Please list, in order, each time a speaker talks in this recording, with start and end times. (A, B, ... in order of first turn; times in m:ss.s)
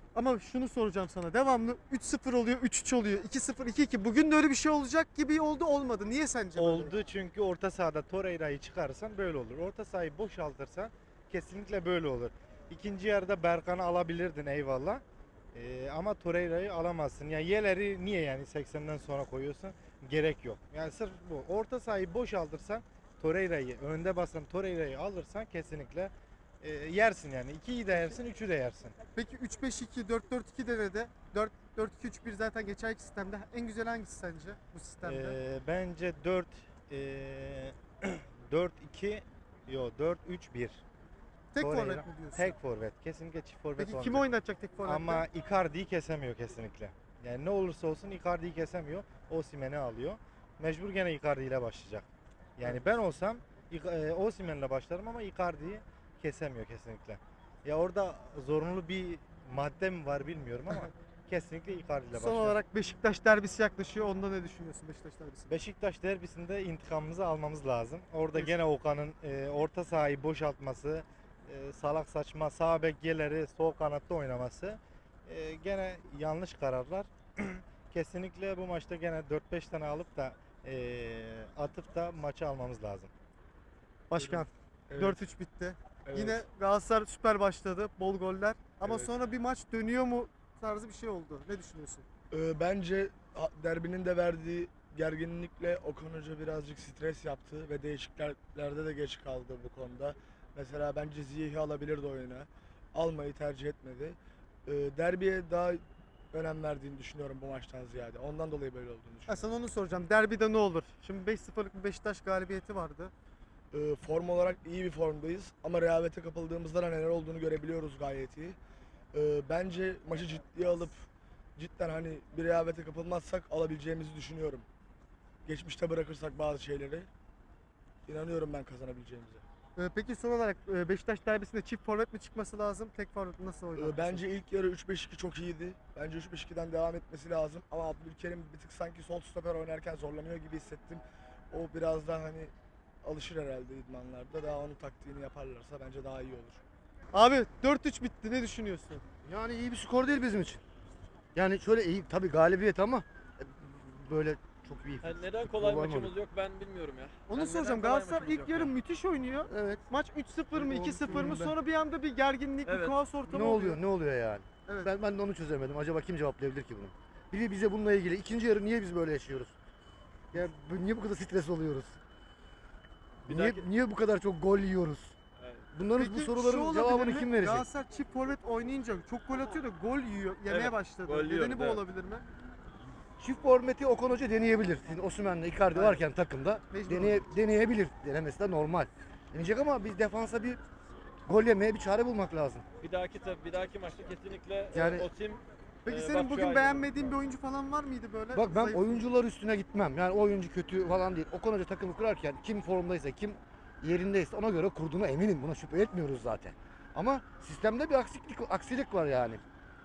0:00.2-0:07.0 A
0:06.6-0:15.0 B
0:15.5-0:29.0 B
0:27.9-0:28.2 A
0:29.2-0:35.4 A
0:35.0-0:40.8 B
0:41.5-0:42.6 A
0:41.6-0:44.2 B
0:43.8-0:45.2 A
0:44.8-1:02.6 B
1:02.1-1:05.6 A
1:05.5-1:23.1 B
1:24.1-1:32.1 A
1:24.2-1:25.3 C
1:26.1-1:26.4 C
1:28.8-1:29.1 C
1:32.3-1:49.5 C
1:49.3-1:53.1 A
1:53.7-1:58.6 C
1:59.1-2:01.0 C
2:01.6-2:04.7 C
2:05.5-2:07.1 C
2:08.1-2:09.4 C
2:09.8-2:14.3 A
2:13.8-2:22.5 C
2:23.0-2:26.6 C
2:27.1-2:29.0 A
2:29.2-2:30.6 D
2:31.4-2:36.1 D
2:35.0-2:38.7 E
2:37.3-2:43.8 A
2:39.5-2:39.8 D
2:40.5-2:41.6 D
2:42.7-2:43.0 E
2:43.3-2:49.5 D
2:44.7-2:44.9 A
2:50.3-2:52.0 D
2:53.2-2:55.2 D
2:53.3-2:53.6 E
2:55.7-2:57.7 D
2:56.0-3:02.2 A
3:00.5-3:01.8 E
3:03.2-3:10.6 D
3:05.7-3:06.0 A
3:06.7-3:07.3 A
3:11.3-3:12.6 D
3:12.8-3:17.1 E
3:14.7-3:15.1 D
3:15.9-3:19.0 A
3:18.3-3:29.4 D